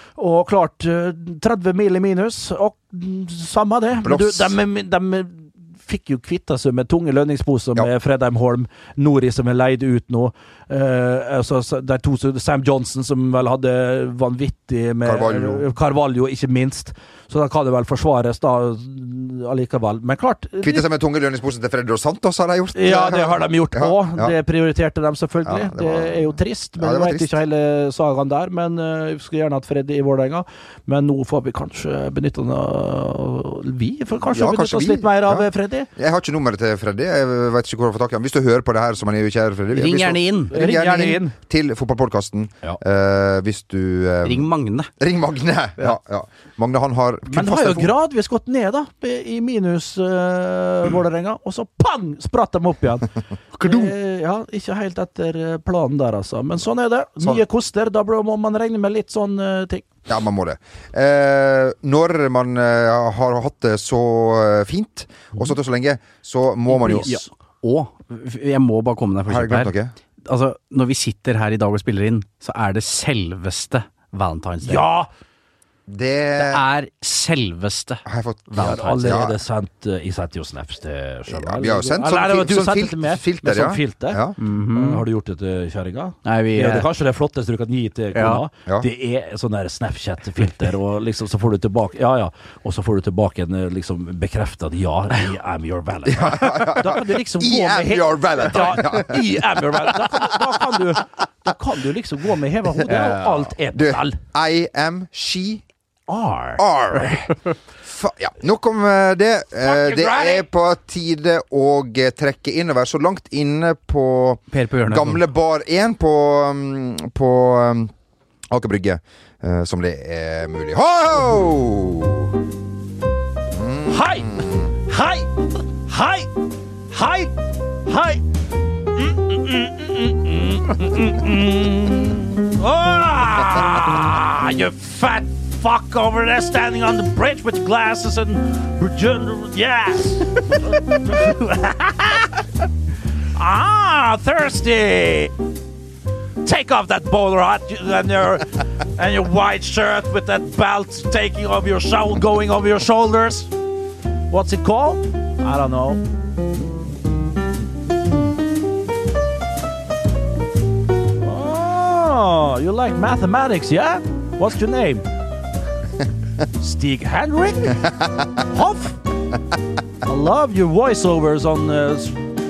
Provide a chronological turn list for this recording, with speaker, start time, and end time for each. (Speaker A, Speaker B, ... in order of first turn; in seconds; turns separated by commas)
Speaker A: 0.2-20.8, Speaker B: 4.0-4.5, Speaker B: 15.0-15.7, Speaker B: 20.6-24.3, Speaker A: 22.7-35.9, Speaker B: 25.4-27.4, Speaker B: 34.2-47.9, Speaker C: 39.7-40.5, Speaker A: 40.5-41.4, Speaker C: 44.2-44.9, Speaker A: 47.3-53.1, Speaker C: 53.6-53.9, Speaker A: 53.6-59.9, Speaker B: 60.1-67.2, Speaker C: 66.7-69.7, Speaker B: 69.3-69.9, Speaker C: 70.2-74.9, Speaker A: 74.6-75.1, Speaker B: 75.9-76.6, Speaker C: 76.4-78.0, Speaker B: 78.0-79.3, Speaker C: 78.5-79.2, Speaker A: 78.6-104.2, Speaker B: 81.3-84.3, Speaker C: 84.4-85.0, Speaker C: 86.2-86.9, Speaker C: 88.1-88.4, Speaker B: 96.0-100.6, Speaker C: 102.9-103.3, Speaker B: 102.9-105.6, Speaker A: 106.1-106.6, Speaker B: 106.6-107.3, Speaker B: 107.8-117.9, Speaker A: 109.6-110.5, Speaker C: 114.5-115.2, Speaker B: 118.5-122.3, Speaker B: 123.5-124.7, Speaker A: 123.9-125.3, Speaker A: 125.8-126.3, Speaker A: 126.9-128.2, Speaker A: 128.9-142.4, Speaker A: 143.3-145.3, Speaker A: 146.4-153.5, Speaker A: 154.3-156.0, Speaker A: 161.2-165.1, Speaker A: 166.6-169.0, Speaker A: 170.0-172.2